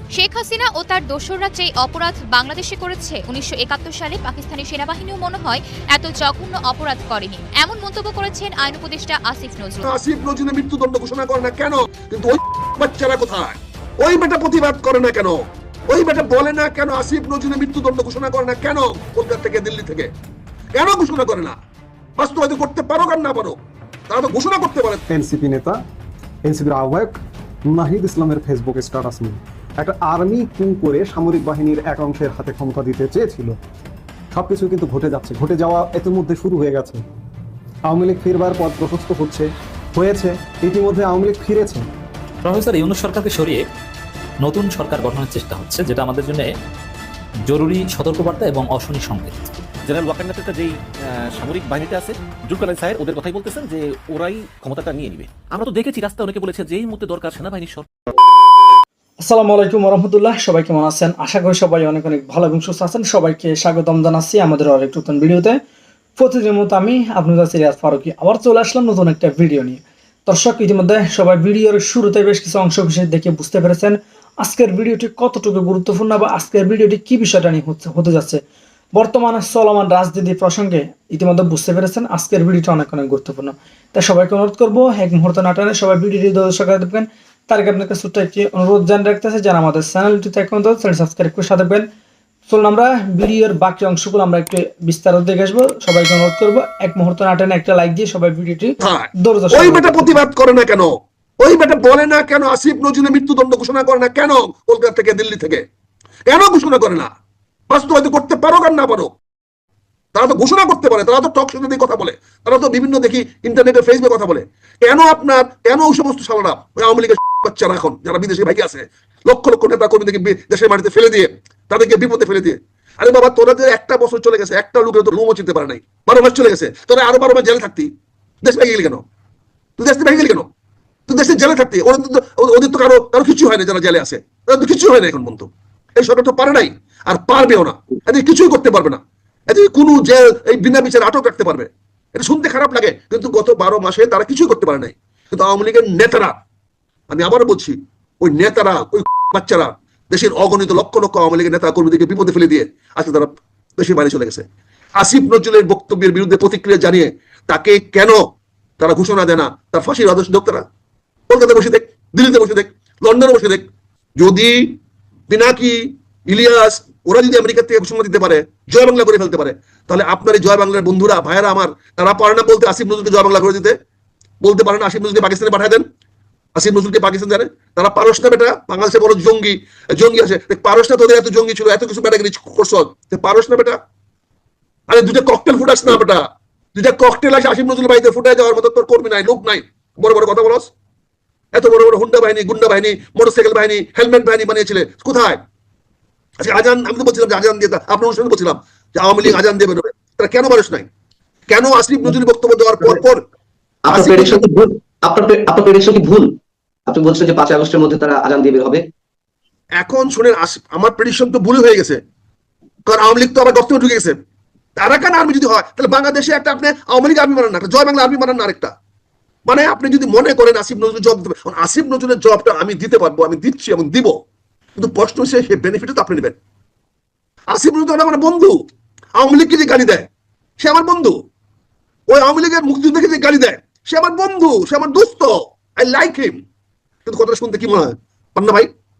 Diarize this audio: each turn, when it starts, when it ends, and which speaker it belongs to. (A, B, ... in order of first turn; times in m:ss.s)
0:00.1-0:09.9 A
0:09.8-0:20.1 B
0:20.7-0:21.6 B
0:22.2-0:23.6 B
0:24.1-0:25.0 B
0:25.1-0:25.8 C
0:26.4-0:27.2 C
0:27.7-0:33.6 C
0:34.3-0:37.0 C
0:37.9-0:41.8 C
0:42.4-0:43.6 D
0:44.4-0:46.5 D
0:47.5-0:49.5 D
0:49.8-0:57.9 E
0:59.2-1:05.6 F
1:06.2-1:18.4 F
1:18.9-1:31.9 F
1:32.5-1:40.2 F
1:38.8-1:45.6 B
1:46.3-1:47.1 B
1:47.7-1:49.1 B
1:50.1-2:07.9 B
2:08.4-2:09.0 B
2:09.8-2:10.5 B
2:11.1-2:26.3 B
2:27.1-2:34.4 B
2:35.0-2:38.2 B
2:38.8-2:40.6 B
2:41.3-2:43.6 B
2:44.2-2:44.8 B
2:45.3-2:53.7 B
2:54.4-2:55.8 B
2:56.6-3:03.8 B
3:04.9-3:06.2 B
3:06.7-3:10.7 B
3:11.5-3:15.4 B
3:16.4-3:20.9 B
3:21.5-3:23.2 B
3:23.8-3:26.3 G
3:23.9-3:24.5 B
3:26.9-3:28.9 G
3:29.8-3:32.0 B
3:32.8-3:34.2 B
3:34.8-3:38.7 B
3:39.4-3:44.1 B
3:44.8-3:46.3 B
3:47.5-3:48.6 B
3:49.2-3:50.1 B
3:50.6-3:51.2 B
3:52.1-3:56.4 B
3:57.0-3:58.7 B